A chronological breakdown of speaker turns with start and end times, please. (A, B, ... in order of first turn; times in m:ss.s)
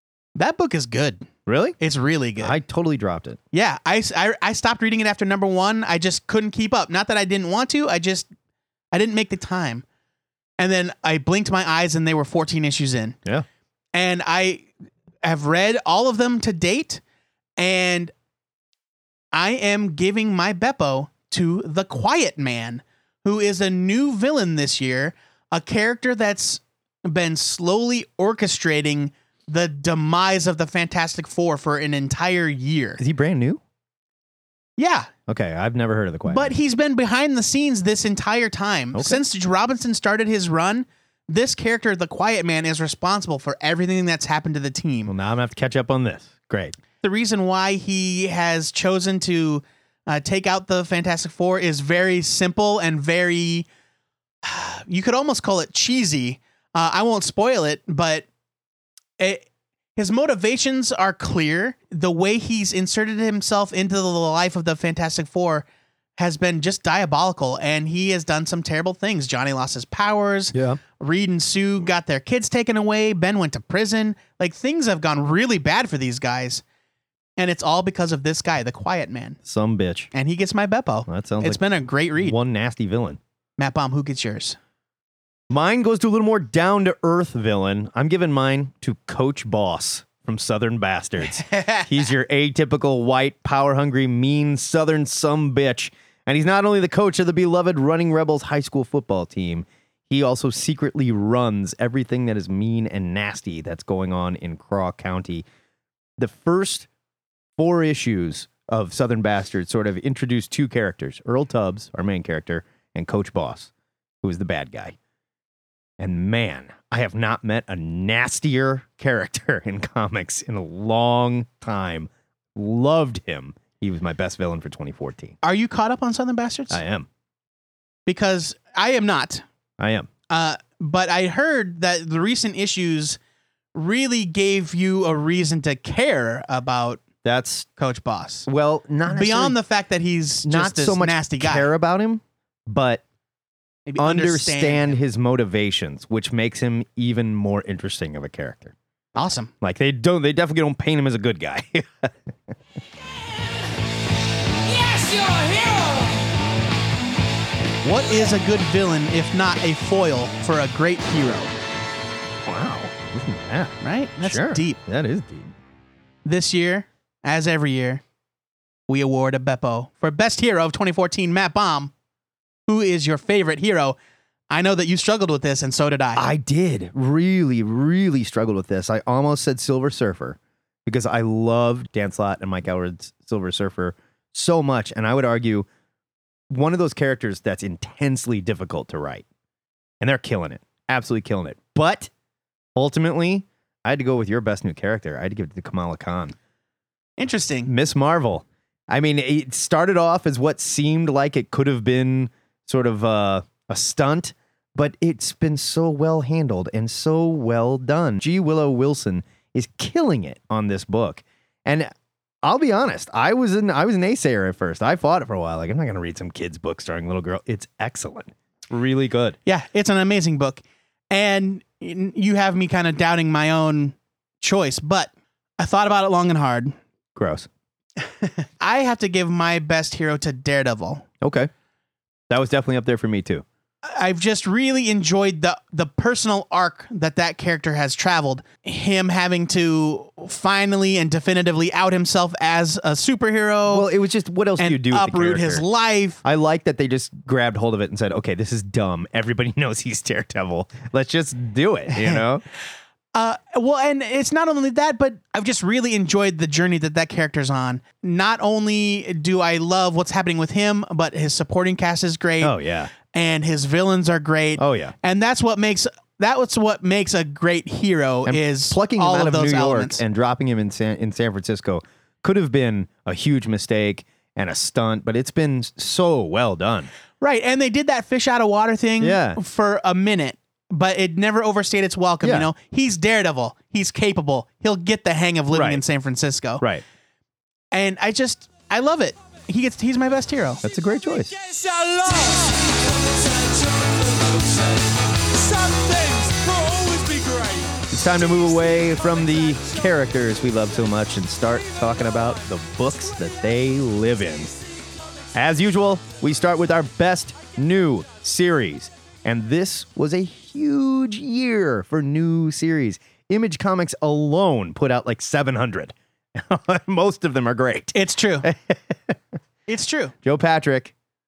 0:00.4-0:01.2 A
0:01.4-0:01.8 B
0:01.8-0:02.6 A
0:02.4-0:03.4 B
0:03.5-0:08.3 A
0:08.9-0:09.8 A
0:10.6-0:13.2 A
0:13.9-0:14.7 A
0:15.2-0:17.0 A
0:17.6-0:18.1 A
0:19.3-0:33.0 A
0:33.0-0:33.6 B
0:34.8-0:35.1 A
0:35.3-0:36.5 B
0:36.3-0:45.1 A
0:38.9-0:39.2 B
0:45.0-0:46.8 B
0:47.0-0:53.7 A
0:54.4-0:58.2 A
0:59.2-0:59.4 A
1:00.0-1:05.6 A
1:06.2-1:16.6 A
1:10.5-1:10.8 B
1:17.4-1:19.4 A
1:19.4-1:20.1 B
1:20.1-1:22.4 A
1:21.1-1:21.6 B
1:22.2-1:23.2 B
1:23.6-1:24.6 A
1:25.5-1:45.4 B
1:31.3-1:31.9 A
1:46.2-1:46.9 B
1:47.6-1:53.7 B
1:54.2-1:55.0 B
1:56.0-2:05.4 B
2:05.4-2:06.8 A
2:06.7-2:07.1 B
2:08.0-2:09.4 A
2:09.8-2:10.1 B
2:10.3-2:13.2 A
2:13.7-2:17.0 A
2:17.2-2:17.7 B
2:17.8-2:18.5 A
2:18.5-2:19.6 B
2:19.1-2:21.7 A
2:20.4-2:23.0 B
2:23.9-2:25.0 A
2:24.0-2:28.7 B
2:29.1-2:29.5 A
2:29.6-2:32.1 B
2:37.8-2:41.6 A
2:42.4-2:45.5 B
2:43.8-2:44.8 A
2:46.2-2:48.0 A
2:48.9-2:51.9 A
2:52.7-2:54.0 A
2:54.5-2:56.3 A
2:56.1-3:05.7 B
3:06.5-3:09.2 B
3:10.0-3:12.1 B
3:12.8-3:16.4 B
3:17.2-3:17.7 A
3:17.6-3:31.9 B
3:32.4-3:39.4 B
3:39.4-3:46.8 A
3:47.1-3:47.5 B
3:48.6-3:51.0 A
3:51.2-3:51.5 B
3:52.3-3:53.4 B
3:53.8-4:03.9 A
4:03.7-4:05.6 B
4:04.6-4:06.2 A
4:06.2-4:12.4 B
4:11.9-4:12.2 A
4:13.1-4:30.0 A
4:22.4-4:22.9 B
4:24.6-4:24.9 B
4:28.2-4:36.9 B
4:37.2-4:46.6 A
4:39.0-4:39.4 B
4:42.2-4:42.5 B
4:45.5-4:45.8 B
4:47.7-4:50.6 A
4:50.6-4:51.3 B
4:51.5-4:54.9 C
4:55.4-4:57.7 C
4:57.9-5:04.6 B
5:05.3-5:19.2 B
5:17.9-5:18.5 A
5:19.7-5:20.1 A
5:20.2-5:20.9 B